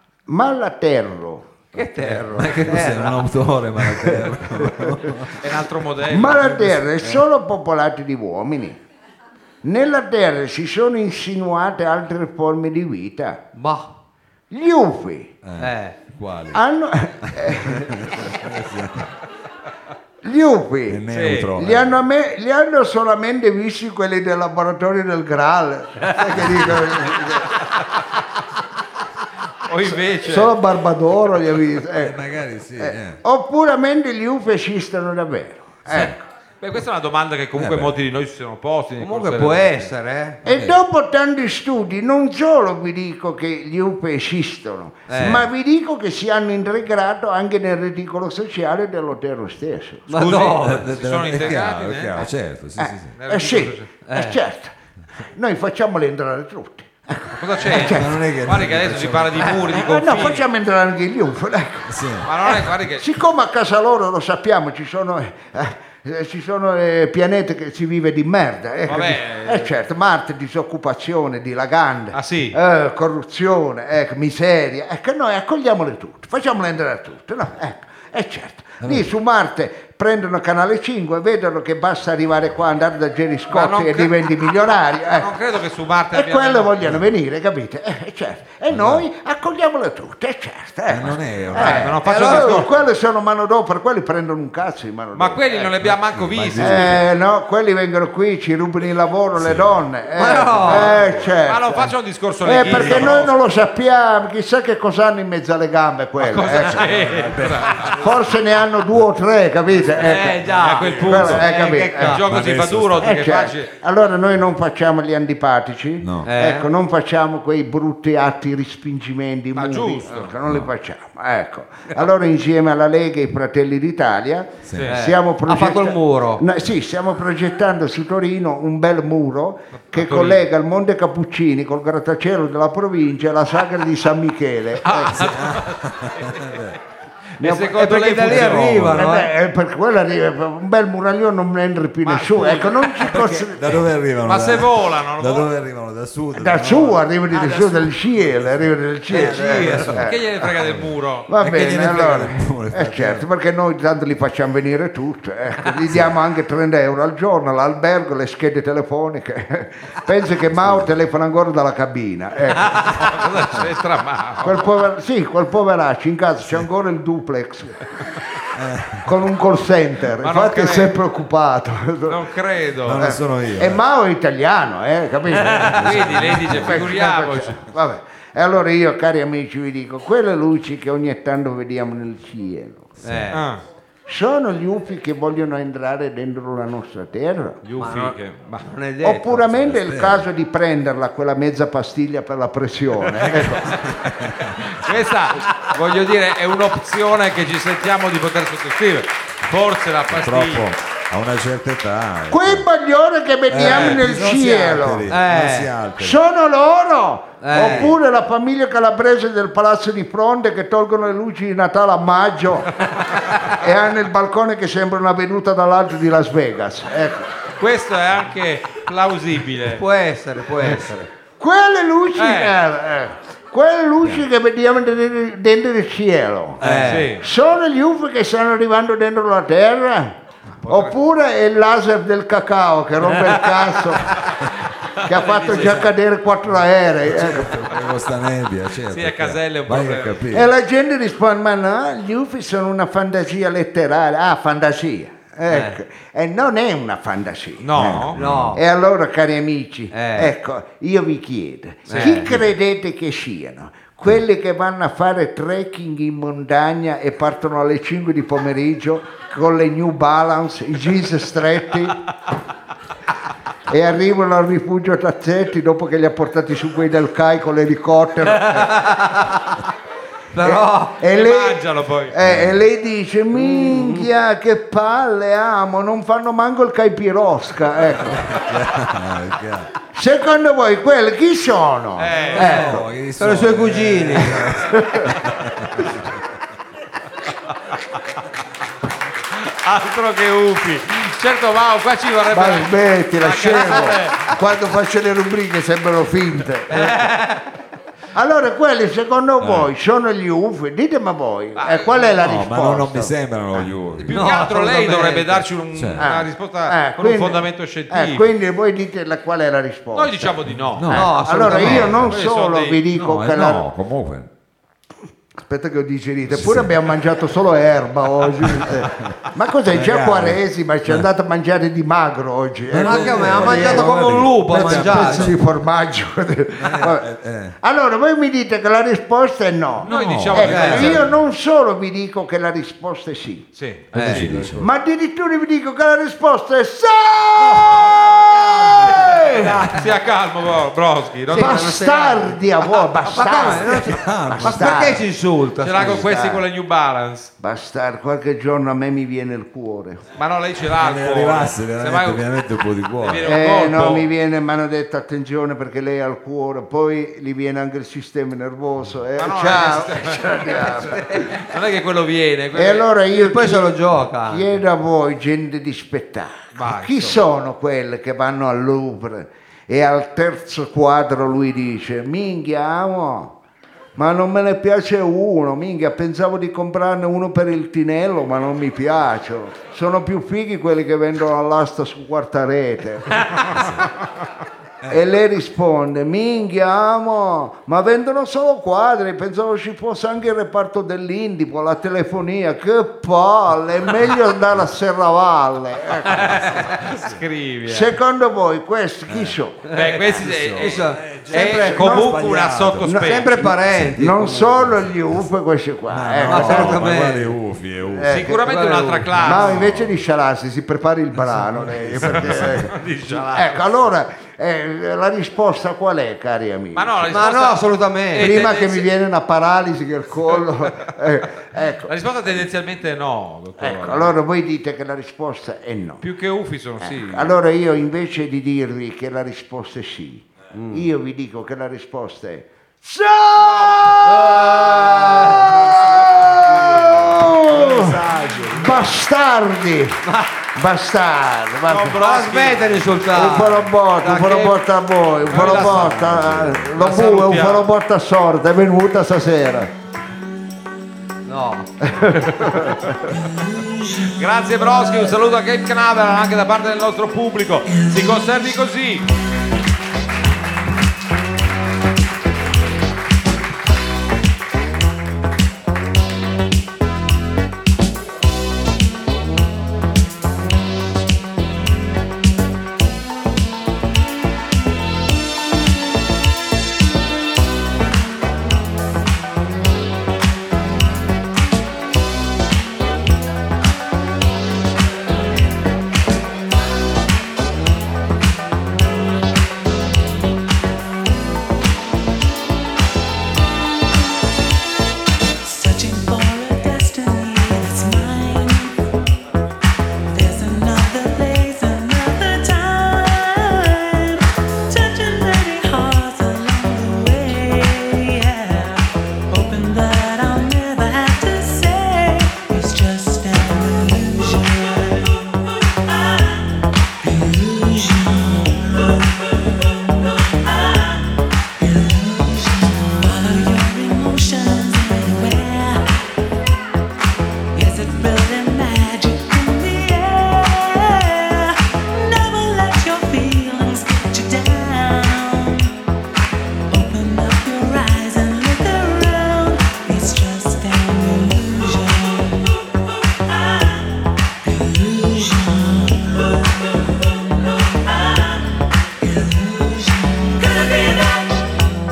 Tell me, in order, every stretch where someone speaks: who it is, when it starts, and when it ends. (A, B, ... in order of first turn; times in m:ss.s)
0:00.3-0:01.5 A
0:01.7-0:03.2 B
0:02.0-0:05.5 C
0:04.0-0:05.0 A
0:05.4-0:06.7 D
0:06.1-0:08.8 A
0:09.6-0:13.4 A
0:13.5-0:13.9 B
0:14.5-0:15.3 A
0:15.4-0:16.6 C
0:15.6-0:16.0 B
0:16.5-0:18.2 A
0:17.2-0:19.1 C
0:20.2-0:27.6 A
0:20.9-0:22.0 C
0:21.1-0:21.5 D
0:26.3-0:27.0 C
0:29.6-0:30.6 D
0:29.8-0:32.2 A
0:31.9-0:33.2 C
0:32.8-0:36.2 A
0:35.9-0:39.9 D
0:37.6-0:37.9 C
0:39.0-0:40.4 B
0:40.4-0:50.1 A
0:40.5-0:40.8 C
0:45.1-0:45.4 B
0:50.1-0:50.9 B
0:50.2-0:52.2 D
0:50.3-0:53.1 C
0:52.8-0:54.7 A
0:53.2-0:53.9 D
0:54.0-0:54.4 B
0:55.4-0:58.2 A
0:57.3-1:00.4 D
0:57.6-0:59.8 C
0:59.7-1:25.3 A
1:01.9-1:02.3 C
1:02.2-1:03.1 D
1:08.8-1:09.7 D
1:12.1-1:12.6 D
1:18.8-1:19.1 C
1:23.5-1:24.1 D
1:25.1-1:26.9 D
1:26.1-1:35.7 A
1:28.7-1:29.0 C
1:30.9-1:32.0 C
1:31.5-1:32.7 D
1:32.0-1:32.6 B
1:35.1-1:37.0 D
1:35.8-1:37.0 C
1:36.6-1:41.9 A
1:39.4-1:39.8 C
1:40.2-1:40.9 B
1:40.7-1:41.2 C
1:41.4-1:43.3 D
1:42.4-1:46.9 A
1:42.6-1:43.3 C
1:46.2-1:48.0 D
1:46.8-1:48.4 C
1:47.8-1:52.3 A
1:50.0-1:52.2 B
1:50.4-1:53.7 D
1:50.7-1:51.4 C
1:52.2-1:53.1 C
1:53.0-2:15.4 A
1:56.0-1:56.3 C
1:56.2-1:56.7 B
1:59.5-2:00.3 D
2:00.4-2:00.7 C
2:04.6-2:04.9 C
2:04.9-2:06.4 B
2:09.9-2:10.4 D
2:14.8-2:16.6 D
2:15.2-2:16.8 C
2:17.4-2:19.0 D
2:17.4-2:17.8 A
2:17.7-2:19.3 B
2:18.9-2:23.8 A
2:22.0-2:23.3 D
2:23.0-2:27.0 C
2:24.2-2:25.5 D
2:26.4-2:30.2 A
2:29.1-2:30.0 B
2:29.1-2:33.2 C
2:30.0-2:31.3 D
2:31.3-2:43.2 A
2:35.8-2:36.1 C
2:40.5-2:40.9 C
2:42.8-2:44.7 D
2:44.4-2:47.9 A
2:48.5-2:49.1 C
2:49.0-2:52.2 A
2:50.2-2:50.9 D
2:52.0-2:53.0 D
2:52.8-2:53.8 C
2:53.0-3:02.9 A
2:55.5-2:57.6 D
2:55.6-2:56.9 C
3:03.0-3:03.3 C
3:03.0-3:03.4 B
3:03.3-3:03.6 D
3:04.1-3:07.6 A
3:07.6-3:08.6 D
3:07.8-3:09.7 B
3:09.0-3:13.7 A
3:09.7-3:10.2 C
3:13.4-3:14.7 C
3:14.5-3:20.6 D
3:20.1-3:22.7 C
3:22.3-3:25.1 A
3:23.5-3:26.2 C
3:23.6-3:24.0 D
3:25.1-3:25.7 B
3:26.0-3:37.4 A
3:27.4-3:27.9 B
3:37.6-3:39.8 D
3:39.7-3:41.1 B
3:41.4-3:54.2 A
3:42.2-3:42.5 D
3:46.6-3:47.1 B
3:46.6-3:47.0 C
3:46.8-3:47.2 D
3:50.6-3:51.0 D
3:53.6-3:54.4 D
3:55.0-3:55.8 D
3:55.0-3:57.7 A
3:55.4-3:56.0 C
3:57.0-4:00.5 C
3:58.9-4:00.3 D
4:00.3-4:22.0 A
4:05.5-4:05.8 B
4:07.6-4:08.2 D
4:07.8-4:08.6 C
4:08.2-4:08.6 B
4:09.9-4:10.3 B
4:11.9-4:12.3 B
4:11.9-4:12.4 D
4:23.7-4:28.8 A
4:28.3-4:29.6 B
4:30.3-4:31.0 B
4:30.4-4:38.4 A
4:31.1-4:32.1 D
4:32.2-4:32.6 C
4:33.3-4:34.1 B
4:38.2-4:39.7 C
4:39.9-4:42.9 A
4:42.0-4:42.5 D
4:42.3-4:44.4 B
4:42.3-4:46.0 C
4:44.3-4:45.1 A
4:49.3-4:54.3 D
4:52.3-4:57.1 A
4:56.7-4:57.4 B
4:58.1-5:03.1 A
4:59.4-4:59.7 C
5:01.6-5:02.1 D
5:02.2-5:04.3 C
5:04.0-5:08.3 D
5:04.1-5:05.4 B
5:05.7-5:06.0 C
5:06.0-5:10.3 A
5:09.9-5:12.8 D
5:10.7-5:12.2 C
5:10.9-5:12.0 B
5:11.2-5:13.6 A
5:12.9-5:14.3 C
5:15.4-5:27.1 A
5:16.3-5:16.7 C
5:18.4-5:19.1 C
5:19.7-5:21.1 C
5:22.7-5:25.4 C
5:22.8-5:25.3 B
5:26.6-5:27.6 C
5:27.6-5:33.5 A
5:29.8-5:31.2 C
5:29.8-5:31.1 D
5:30.4-5:31.0 B
5:33.5-5:34.3 D
5:33.9-5:34.5 B
5:33.9-5:34.7 C
5:34.6-5:39.7 A
5:38.8-5:41.7 D
5:41.3-5:42.4 B
5:41.3-5:45.0 A
5:43.0-5:46.1 B
5:43.4-5:45.0 C
5:45.6-5:47.3 D
5:45.7-5:46.4 A
5:47.4-5:50.0 A
5:50.2-5:52.2 D
5:50.6-5:53.4 C
5:53.0-5:54.1 D
5:53.2-6:01.0 A
5:59.2-6:02.8 D
6:00.8-6:01.3 B
6:02.5-6:03.7 A
6:03.1-6:04.6 B
6:04.3-6:13.3 A
6:06.5-6:07.3 D
6:14.0-6:23.8 A
6:24.9-6:36.8 A
6:36.0-6:37.9 D
6:37.6-6:39.7 A
6:39.1-6:39.4 C
6:39.6-6:42.0 B
6:39.7-6:43.4 D
6:40.6-6:43.0 C
6:41.6-6:42.1 A
6:42.8-6:46.8 A
6:42.9-6:44.7 B
6:43.7-6:44.9 C
6:45.9-6:48.1 C
6:46.3-6:47.3 B
6:47.9-6:48.5 A
6:48.1-6:49.8 D
6:48.4-6:49.2 B
6:49.2-6:57.2 A
6:49.2-6:50.0 C
6:51.2-6:52.8 C
6:52.0-6:53.8 D
6:56.7-6:58.8 D
6:57.1-6:58.6 B
6:58.2-7:02.4 A
7:01.9-7:04.1 D
7:03.6-7:06.0 A
7:06.0-7:07.4 D
7:06.8-7:20.0 A
7:10.5-7:10.9 B
7:13.4-7:14.0 D
7:14.0-7:15.7 B
7:15.7-7:16.1 D
7:16.3-7:18.4 C
7:17.8-7:18.4 B
7:20.0-7:20.3 B
7:20.5-7:22.0 A
7:21.7-7:23.0 D
7:21.9-7:23.7 B
7:23.1-7:29.7 A
7:24.0-7:24.6 D
7:25.2-7:27.7 D
7:25.4-7:26.7 C
7:31.2-7:31.7 B
7:31.8-7:33.2 A
7:32.4-7:32.9 D
7:33.4-7:34.0 E
7:34.1-7:39.0 D
8:15.4-8:18.8 E
8:20.1-8:35.3 E
8:37.0-8:39.0 E
8:39.7-8:40.9 E
8:41.6-8:45.8 E
8:47.5-8:55.7 E
8:56.7-9:02.5 E
9:04.4-9:08.3 E
9:09.0-9:11.4 E